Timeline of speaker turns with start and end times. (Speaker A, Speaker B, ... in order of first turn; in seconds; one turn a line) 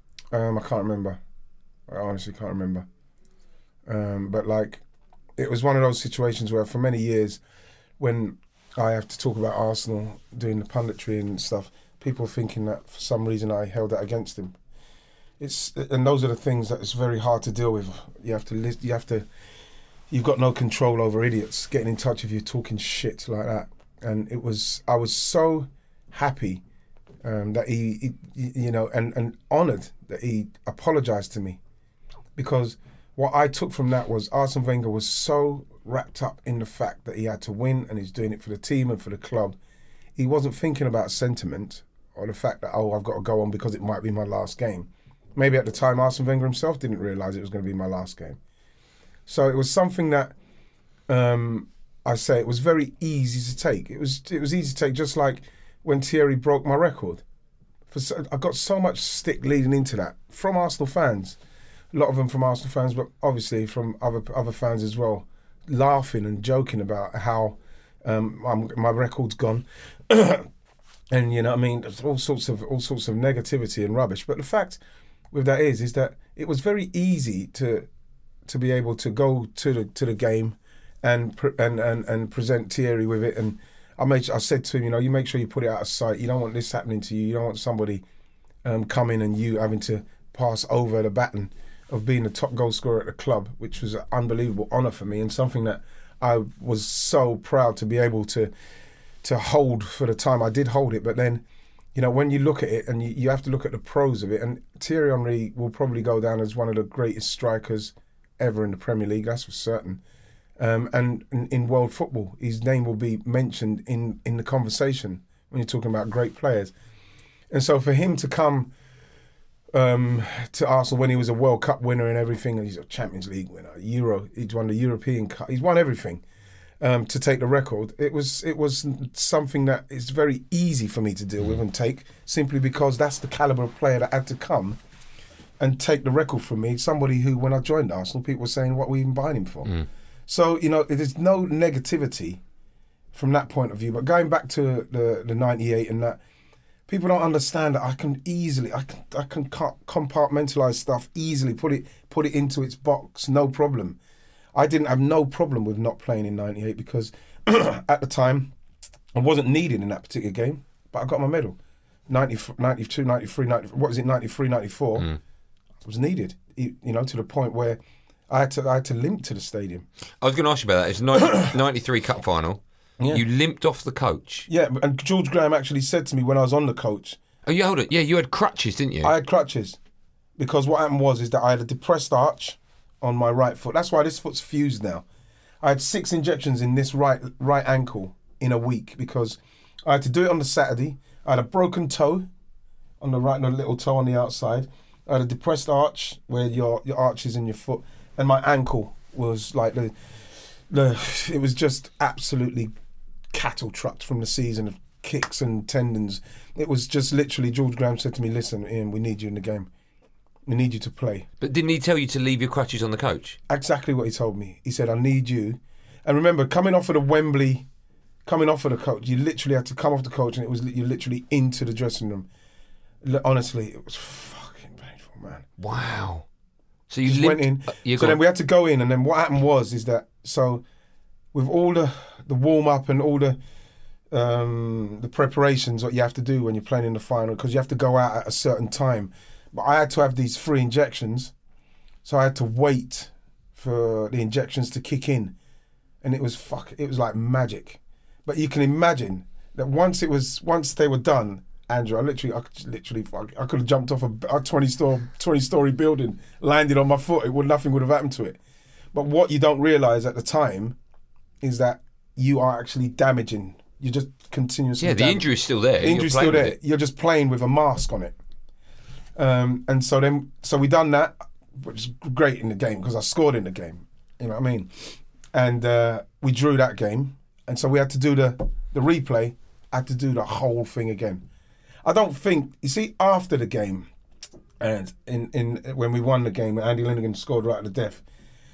Speaker A: 0.3-1.2
Speaker A: 1.9-2.9
Speaker A: 3.9-4.8
Speaker A: 5.4-7.4
Speaker A: 8.0-14.5
Speaker A: 15.4-19.3
Speaker A: 20.1-26.6
Speaker A: 27.2-31.6
Speaker A: 32.4-39.6
Speaker A: 40.2-48.4
Speaker A: 49.3-50.3
Speaker A: 51.1-57.2
Speaker A: 57.9-61.4
Speaker A: 61.9-70.5
Speaker A: 71.1-74.8
Speaker A: 75.3-77.9
Speaker A: 78.5-88.0
Speaker A: 88.7-98.5
Speaker A: 99.2-101.4
Speaker A: 102.0-110.0
Speaker A: 110.6-116.7
Speaker A: 117.5-118.7
Speaker A: 119.7-126.2
Speaker A: 126.8-134.8
Speaker A: 135.6-142.4
Speaker A: 143.1-146.2
Speaker A: 146.9-154.0
Speaker A: 154.6-158.5
Speaker A: 159.2-161.6
Speaker A: 162.1-165.1
Speaker A: 165.8-167.8
Speaker A: 168.3-169.8
Speaker B: 170.2-172.6
Speaker B: 173.1-174.5
Speaker A: 174.5-177.2
Speaker B: 177.5-179.1
Speaker A: 179.0-179.8
Speaker A: 180.4-185.1
Speaker A: 185.6-192.3
Speaker A: 193.0-199.9
Speaker A: 200.7-202.7
Speaker A: 203.3-209.7
Speaker A: 210.5-211.3
Speaker B: 211.4-213.4
Speaker A: 213.5-217.7
Speaker A: 218.3-222.3
Speaker A: 223.0-225.5
Speaker B: 225.6-226.3
Speaker B: 226.9-228.2
Speaker A: 227.0-230.6
Speaker A: 231.3-233.4
Speaker A: 234.1-241.3
Speaker A: 242.0-245.3
Speaker A: 246.0-258.4
Speaker A: 258.9-260.8
Speaker A: 261.4-265.3
Speaker B: 264.8-266.6
Speaker A: 265.8-268.2
Speaker A: 269.2-281.2
Speaker A: 281.9-283.9
Speaker A: 284.6-288.0